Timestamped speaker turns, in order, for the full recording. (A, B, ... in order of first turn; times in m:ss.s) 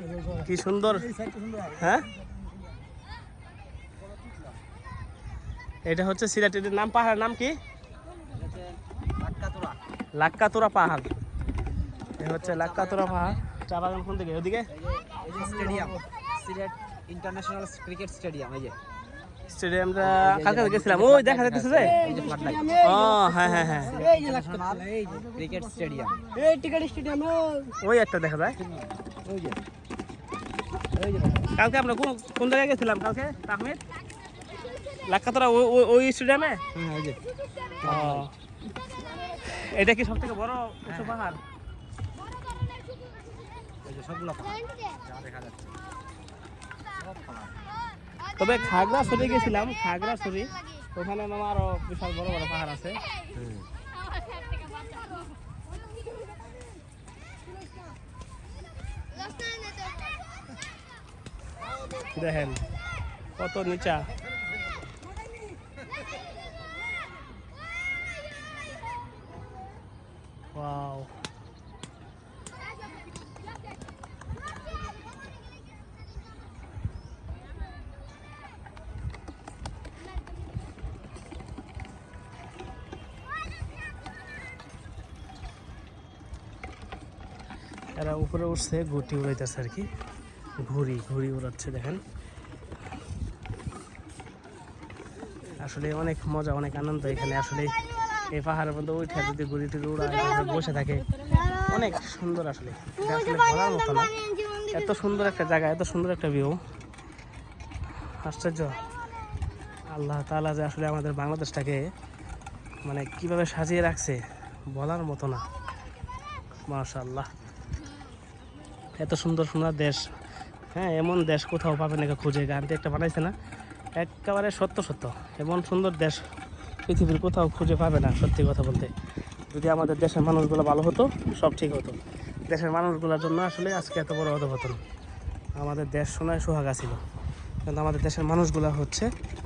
0:00.4-0:01.1 A
0:01.7-0:02.1 A
0:05.9-0:07.6 A
0:08.3-0:09.8 B
0:10.2-0:11.1 A
0:12.2-0:14.7 A
0:12.2-0:13.4 B
0:14.7-0:18.8 B
0:19.5-0:22.0 A
0:20.0-0:22.8 B
0:21.8-0:24.6 C
0:22.8-0:24.0 A
0:23.9-0:26.3 B
0:26.3-0:27.8 C
0:27.8-0:28.6 A
0:28.7-0:29.6 B
0:31.0-0:31.5 B
0:31.5-0:33.8 A
0:35.1-0:36.6 A
0:36.7-0:37.2 B
0:37.8-0:38.3 B
0:37.8-0:38.3 A
0:39.5-0:41.4 A
0:40.9-0:41.1 B
0:43.8-0:45.7 B
0:47.0-0:47.5 B
0:48.4-0:53.0 A
0:53.4-0:53.7 B
1:02.2-1:02.6 A
1:03.4-1:04.1 A
1:10.5-1:11.1 A
1:28.0-1:29.9 A
1:30.6-1:32.0 A
1:35.6-1:37.8 A
1:38.3-1:46.6 A
1:48.1-1:48.8 A
1:49.9-1:51.9 A
1:52.8-1:55.5 A
1:56.7-1:57.3 A
1:59.0-2:00.0 A
2:00.7-2:03.3 A
2:04.0-2:06.3 A
2:06.9-2:08.9 A
2:09.5-2:12.0 A
2:12.5-2:14.8 A
2:15.6-2:17.0 A
2:17.6-2:19.1 A